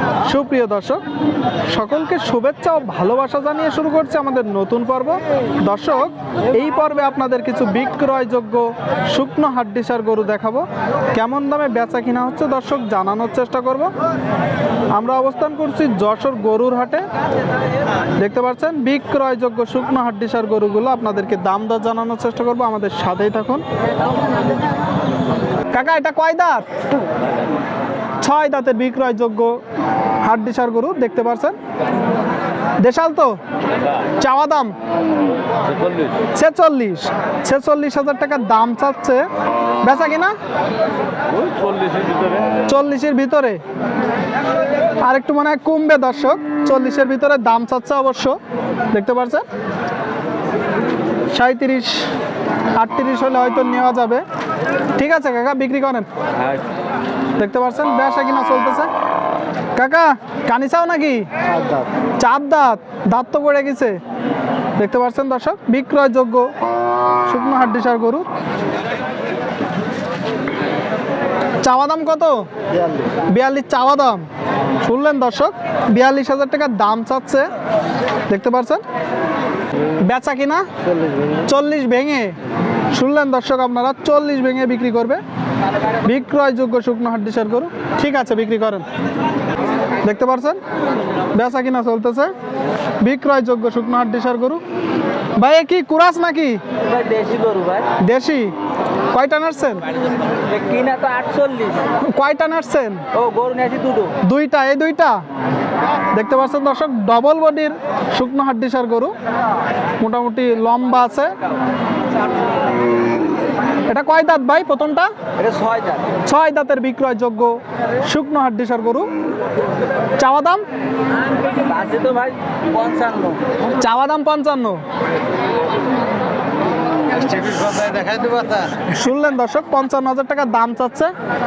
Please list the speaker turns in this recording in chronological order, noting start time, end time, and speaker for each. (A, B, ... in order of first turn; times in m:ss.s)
0:00.2-0:01.0 A
0:01.7-0:13.9 A
0:14.9-0:17.0 A
0:18.2-0:23.6 A
0:25.7-0:26.7 A
0:28.2-0:29.6 A
0:30.2-0:31.6 A
0:32.8-0:33.4 A
0:34.0-0:34.7 A
0:36.2-0:39.3 A
0:39.8-0:40.4 A
0:41.5-0:42.4 B
0:42.6-0:43.6 A
0:45.0-0:48.4 A
0:48.9-0:49.4 A
0:51.3-0:52.1 A
0:52.8-0:54.2 A
0:55.0-0:56.1 A
0:57.4-0:58.9 A
0:59.7-1:01.3 A
1:02.2-1:04.0 A
1:04.8-1:06.5 A
1:07.2-1:08.3 A
1:11.6-1:12.5 A
1:13.2-1:17.5 A
1:18.3-1:18.8 A
1:19.8-1:20.7 A
1:21.4-1:22.4 A
1:22.9-1:25.2 A
1:26.0-1:28.8 A
1:30.0-1:30.6 A
1:31.3-1:32.3 A
1:33.0-1:34.6 A
1:35.4-1:36.6 A
1:36.8-1:38.0 B
1:38.0-1:38.5 A
1:39.1-1:39.8 A
1:40.4-1:41.9 B
1:42.0-1:43.1 A
1:43.1-1:44.2 B
1:44.2-1:45.2 A
1:46.1-1:49.1 A
1:50.0-1:51.4 A
1:53.9-1:55.1 A
1:55.4-1:56.1 B
1:56.2-1:59.1 A
2:00.2-2:00.6 A
2:01.4-2:03.4 B
2:03.7-2:04.8 A
2:07.3-2:08.6 B
2:08.8-2:11.1 A